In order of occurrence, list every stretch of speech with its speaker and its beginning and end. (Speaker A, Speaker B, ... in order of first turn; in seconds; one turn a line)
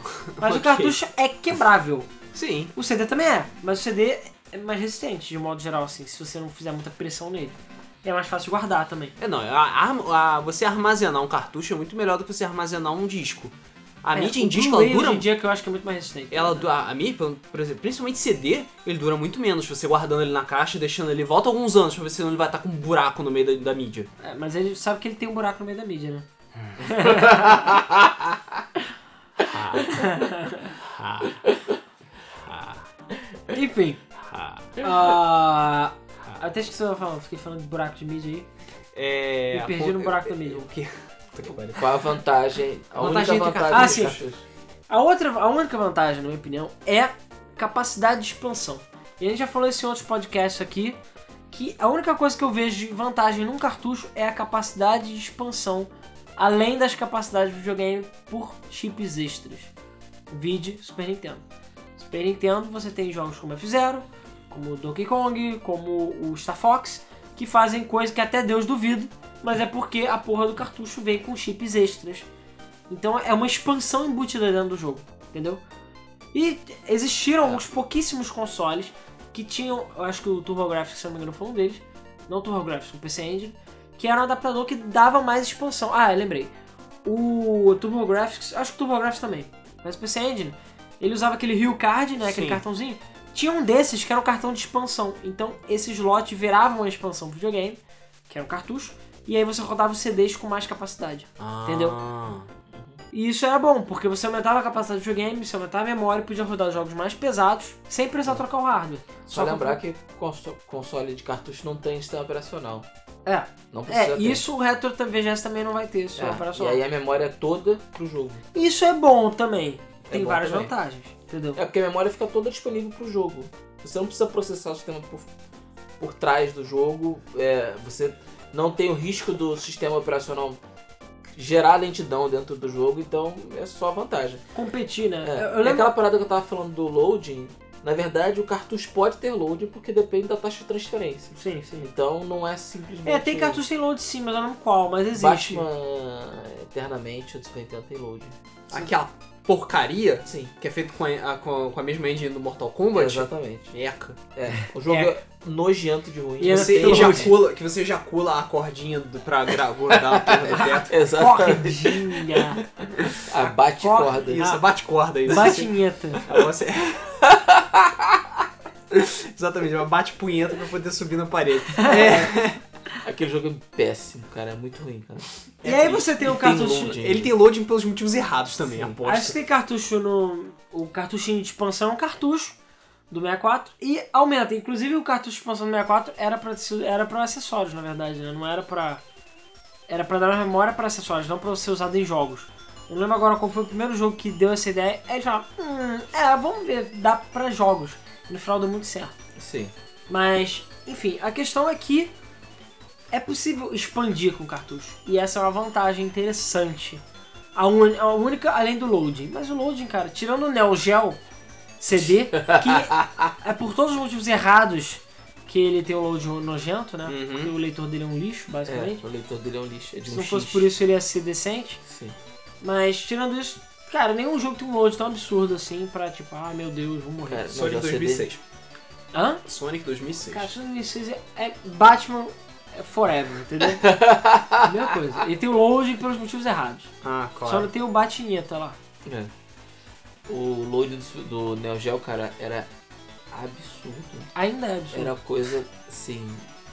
Speaker A: 0.1-1.0
Speaker B: 0.4-2.1
Speaker A: 2.3-2.7
Speaker B: 2.8-9.2
Speaker A: 9.2-15.3
Speaker B: 14.1-16.7
Speaker A: 16.3-24.1
Speaker B: 24.2-26.3
Speaker B: 26.8-27.8
Speaker C: 27.2-28.4
Speaker A: 29.4-29.9
Speaker B: 29.8-30.8
Speaker A: 30.8-31.4
Speaker A: 32.4-32.9
Speaker B: 33.5-34.0
Speaker A: 34.2-34.8
Speaker B: 34.8-38.5
Speaker A: 38.9-41.9
Speaker B: 39.5-40.7
Speaker C: 41.7-44.4
Speaker A: 43.0-44.2
Speaker B: 43.7-44.2
Speaker B: 44.9-51.0
Speaker B: 51.5-59.7
Speaker B: 60.3-61.4
Speaker B: 62.0-72.3
Speaker B: 72.9-75.6
Speaker B: 76.3-86.5
Speaker B: 87.0-102.0
Speaker A: 92.2-92.6
Speaker A: 101.4-102.5
Speaker C: 102.7-103.0
Speaker B: 103.1-109.8
Speaker C: 109.3-112.9
Speaker B: 113.3-116.8
Speaker C: 113.7-114.4
Speaker C: 116.2-118.4
Speaker B: 118.5-121.6
Speaker C: 120.1-120.7
Speaker C: 121.5-125.3
Speaker C: 126.0-130.6
Speaker C: 131.4-134.4
Speaker B: 134.6-135.9
Speaker C: 135.2-143.6
Speaker B: 141.3-141.9
Speaker B: 143.1-145.7
Speaker C: 145.2-148.3
Speaker A: 148.7-154.2
Speaker C: 152.9-153.7
Speaker C: 154.3-157.3
Speaker B: 154.9-155.2
Speaker B: 156.4-157.3
Speaker A: 156.5-161.0
Speaker C: 159.9-164.4
Speaker B: 161.1-162.6
Speaker B: 163.8-164.6
Speaker A: 164.1-165.7
Speaker B: 165.3-166.2
Speaker A: 166.2-167.1
Speaker C: 167.2-168.2
Speaker A: 168.9-172.6
Speaker B: 171.7-172.2
Speaker C: 173.0-177.3
Speaker A: 175.6-176.3
Speaker B: 175.6-177.0
Speaker A: 176.9-179.4
Speaker C: 178.7-179.0
Speaker B: 179.0-182.6
Speaker B: 183.1-189.0
Speaker B: 189.9-199.1
Speaker C: 199.4-199.7
Speaker B: 200.1-202.1
Speaker B: 203.1-207.0
Speaker B: 207.6-211.2
Speaker B: 211.8-219.0
Speaker C: 212.3-213.3
Speaker A: 217.1-217.5
Speaker C: 218.7-220.7
Speaker B: 220.1-221.8
Speaker C: 221.9-222.2
Speaker B: 222.6-227.5
Speaker C: 227.3-228.3
Speaker A: 227.5-228.4
Speaker B: 229.1-229.4
Speaker A: 229.4-230.5
Speaker B: 230.2-233.9
Speaker C: 233.8-234.7
Speaker B: 234.6-236.9
Speaker A: 237.0-237.7
Speaker B: 237.4-238.8
Speaker C: 239.1-239.3
Speaker C: 240.3-242.7
Speaker C: 243.3-244.3
Speaker B: 244.3-245.2
Speaker C: 244.9-246.5